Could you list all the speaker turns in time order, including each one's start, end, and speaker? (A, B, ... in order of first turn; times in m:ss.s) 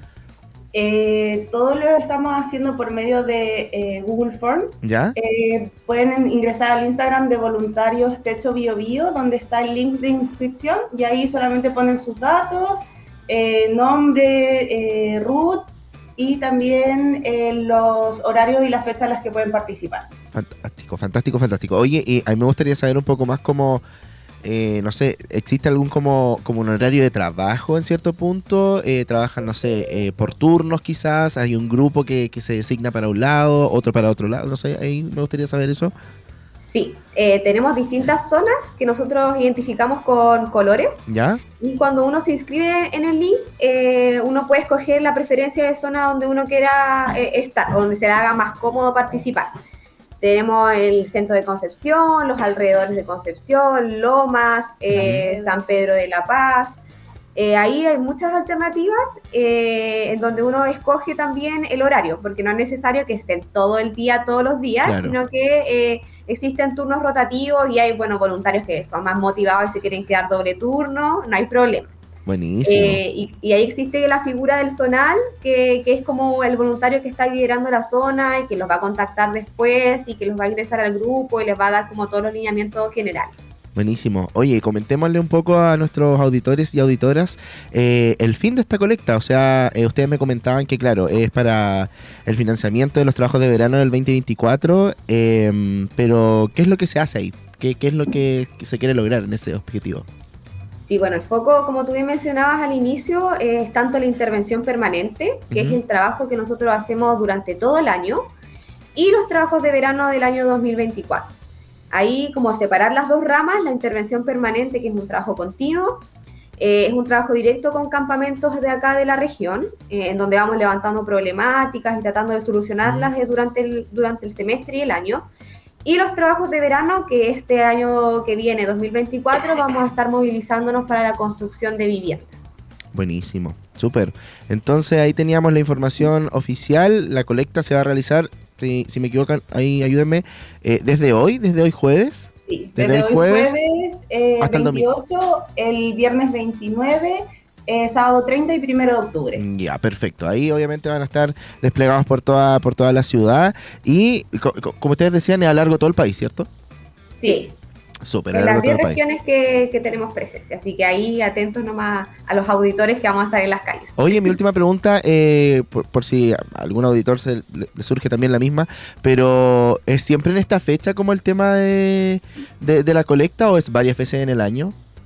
0:00.7-0:20.1 A
0:04.8-0:05.2 B
0:20.3-0:23.8 B
0:24.4-0:35.9 B
0:36.6-0:41.0 C
0:41.1-0:41.4 B
0:41.6-0:49.6 C
0:50.2-0:56.8 C
0:54.9-0:55.2 B
0:55.1-0:55.5 A
0:57.4-1:11.9 C
1:04.8-1:05.2 B
1:12.3-1:13.0 B
1:12.6-1:23.3 C
1:23.8-1:40.1 B
1:40.8-1:48.3 C
1:45.5-1:45.8 B
1:49.0-1:51.3 C
1:51.9-1:56.0 C
1:56.6-2:05.3 C
2:02.8-2:03.1 B
2:05.8-2:12.4 C
2:12.9-2:23.6 B
2:22.5-2:29.4 A
2:24.4-2:24.9 B
2:29.4-2:36.5 B
2:37.2-2:37.5 C
2:37.2-2:37.5 A
2:38.0-2:39.0 B
2:38.3-2:44.3 C
2:44.0-2:54.7 B